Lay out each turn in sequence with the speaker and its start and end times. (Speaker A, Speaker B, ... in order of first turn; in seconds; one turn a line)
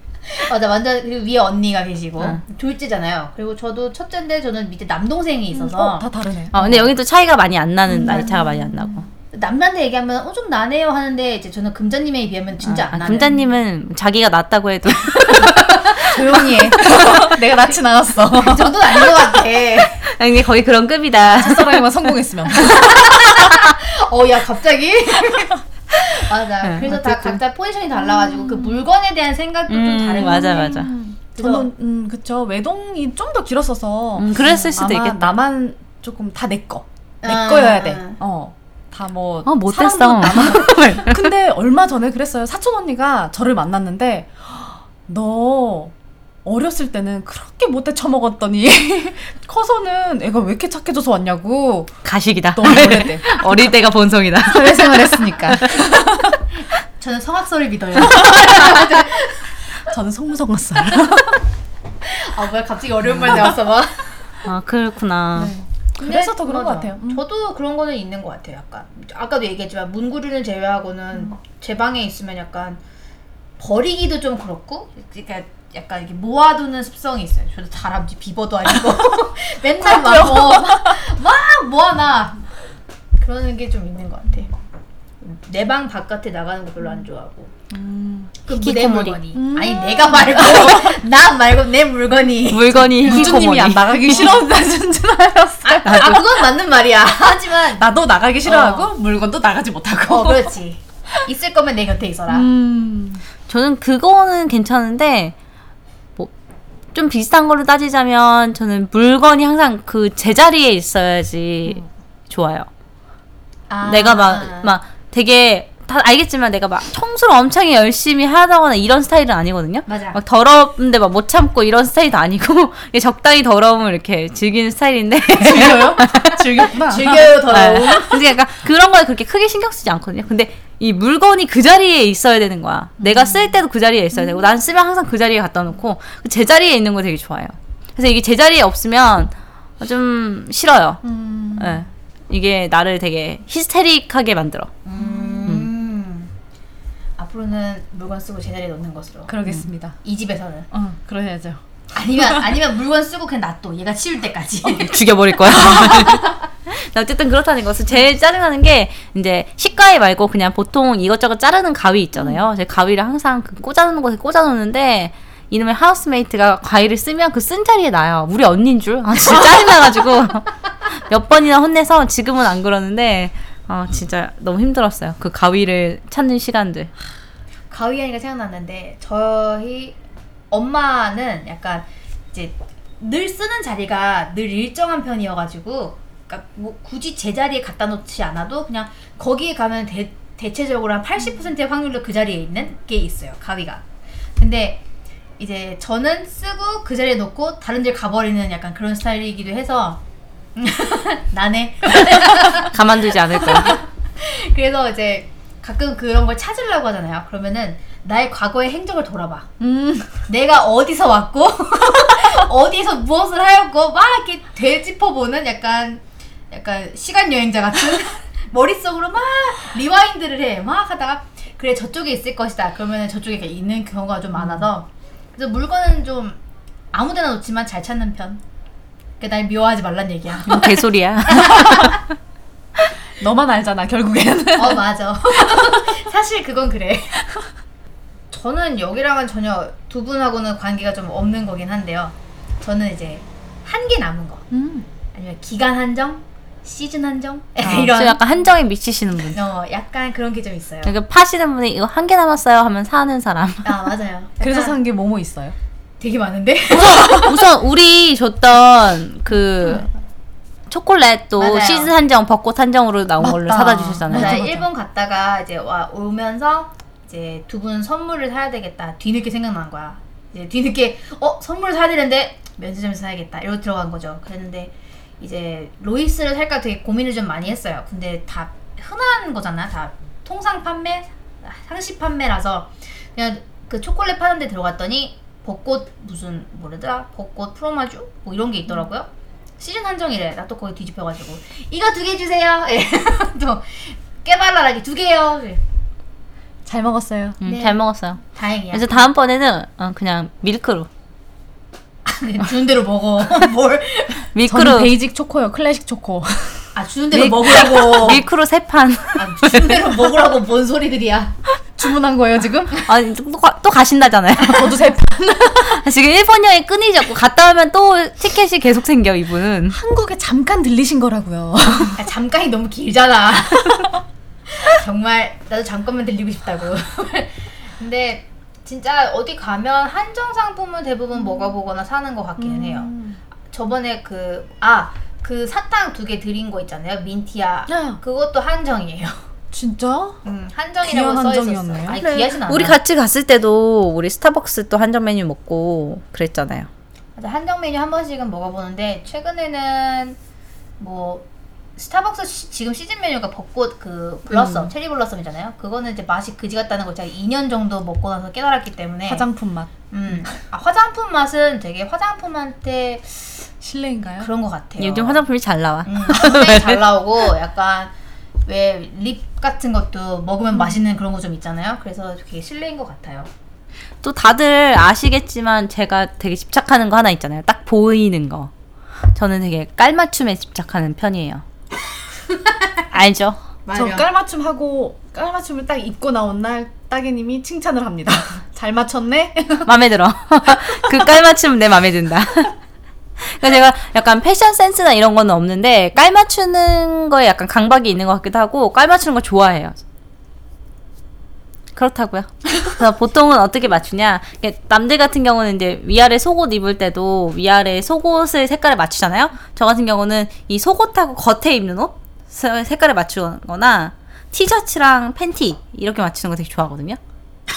Speaker A: 0.3-6.0
Speaker B: 5.5-6.9
Speaker C: 6.5-9.0
Speaker B: 7.9-8.9
Speaker A: 9.3-13.4
Speaker C: 12.6-17.1
Speaker B: 15.4-19.4
Speaker A: 18.3-20.1
Speaker C: 20.0-21.9
Speaker B: 21.2-23.2
Speaker A: 22.5-30.8
Speaker C: 26.6-27.4
Speaker B: 28.0-28.8
Speaker C: 29.7-30.9
Speaker B: 30.2-45.9
Speaker A: 31.4-31.7
Speaker C: 34.2-35.4
Speaker A: 37.2-38.2
Speaker C: 39.5-41.3
Speaker B: 46.4-51.9
Speaker C: 52.0-55.9
Speaker B: 52.5-53.4
Speaker B: 54.5-56.4
Speaker A: 57.0-59.9
Speaker B: 58.0-59.0
Speaker B: 59.8-61.4
Speaker A: 62.0-64.1
Speaker C: 64.4-65.5
Speaker B: 65.3-67.2
Speaker A: 66.0-72.8
Speaker A: 73.6-82.4
Speaker B: 79.8-81.0
Speaker A: 83.2-84.5
Speaker A: 85.2-87.5
Speaker B: 87.7-88.3
Speaker A: 88.4-93.4
Speaker C: 88.5-89.2
Speaker B: 89.3-91.0
Speaker C: 92.5-94.4
Speaker B: 93.0-96.4
Speaker A: 95.6-97.8
Speaker C: 95.8-96.2
Speaker B: 97.7-100.5
Speaker A: 98.5-98.9
Speaker A: 100.1-102.5
Speaker B: 102.3-103.2
Speaker C: 103.5-105.3
Speaker C: 106.9-112.7
Speaker A: 113.7-114.8
Speaker C: 113.8-126.5
Speaker A: 119.9-120.2
Speaker B: 125.4-127.9
Speaker A: 126.8-128.2
Speaker C: 127.5-141.0
Speaker B: 133.1-133.3
Speaker B: 141.0-141.8
Speaker C: 141.6-144.7
Speaker A: 144.8-146.3
Speaker B: 145.0-145.4
Speaker A: 147.2-149.4
Speaker B: 149.3-150.0
Speaker A: 150.0-150.7
Speaker B: 150.7-151.6
Speaker A: 151.9-155.0
Speaker B: 152.1-152.5
Speaker C: 154.6-176.9
Speaker B: 155.5-156.2
Speaker A: 155.6-156.1
Speaker A: 177.7-180.0
Speaker A: 180.5-193.8
Speaker A: 194.4-194.8
Speaker A: 195.4-200.0
Speaker A: 200.6-202.8
Speaker C: 202.3-203.8
Speaker A: 203.3-209.5
Speaker B: 209.6-210.1
Speaker A: 210.3-226.4
Speaker A: 226.9-228.4
Speaker A: 229.2-232.0
Speaker C: 230.4-232.0
Speaker B: 233.2-235.8
Speaker A: 234.5-237.2
Speaker A: 238.3-244.4
Speaker B: 244.5-244.8
Speaker A: 245.1-248.2
Speaker C: 247.6-249.4
Speaker A: 249.3-250.9
Speaker C: 250.8-253.9
Speaker A: 253.6-254.8
Speaker B: 254.4-255.5
Speaker A: 256.0-257.4
Speaker C: 256.8-259.9
Speaker C: 260.7-264.4
Speaker A: 261.4-261.9
Speaker B: 263.2-264.6
Speaker A: 264.1-289.1
Speaker A: 289.6-295.6
Speaker B: 296.6-297.4
Speaker C: 297.4-300.9
Speaker A: 297.4-299.1
Speaker A: 302.0-304.2
Speaker C: 304.3-304.9
Speaker B: 304.4-306.7
Speaker A: 306.7-308.2
Speaker C: 307.1-309.9
Speaker A: 309.1-311.4
Speaker B: 311.8-312.8
Speaker C: 312.9-314.8
Speaker B: 314.4-315.8
Speaker C: 315.5-319.8
Speaker B: 319.7-322.0
Speaker A: 322.0-323.9
Speaker A: 324.5-332.9
Speaker B: 332.4-333.2
Speaker A: 333.5-339.2
Speaker B: 337.7-338.0
Speaker B: 339.5-340.2
Speaker A: 340.2-342.8
Speaker B: 340.8-342.0
Speaker C: 341.9-346.7
Speaker A: 347.1-350.2
Speaker A: 350.8-351.2
Speaker A: 351.8-359.3
Speaker C: 354.3-354.7
Speaker B: 359.0-359.7
Speaker A: 359.9-363.2
Speaker B: 363.6-364.3
Speaker A: 364.2-365.2
Speaker C: 364.8-366.8
Speaker A: 365.9-367.9
Speaker A: 368.4-373.3
Speaker C: 374.0-378.5
Speaker C: 379.1-381.4
Speaker A: 382.4-382.8
Speaker C: 382.9-383.4
Speaker A: 383.6-384.1
Speaker B: 383.7-389.7
Speaker C: 389.6-392.5
Speaker B: 390.4-391.1
Speaker C: 393.2-399.8
Speaker C: 401.8-417.0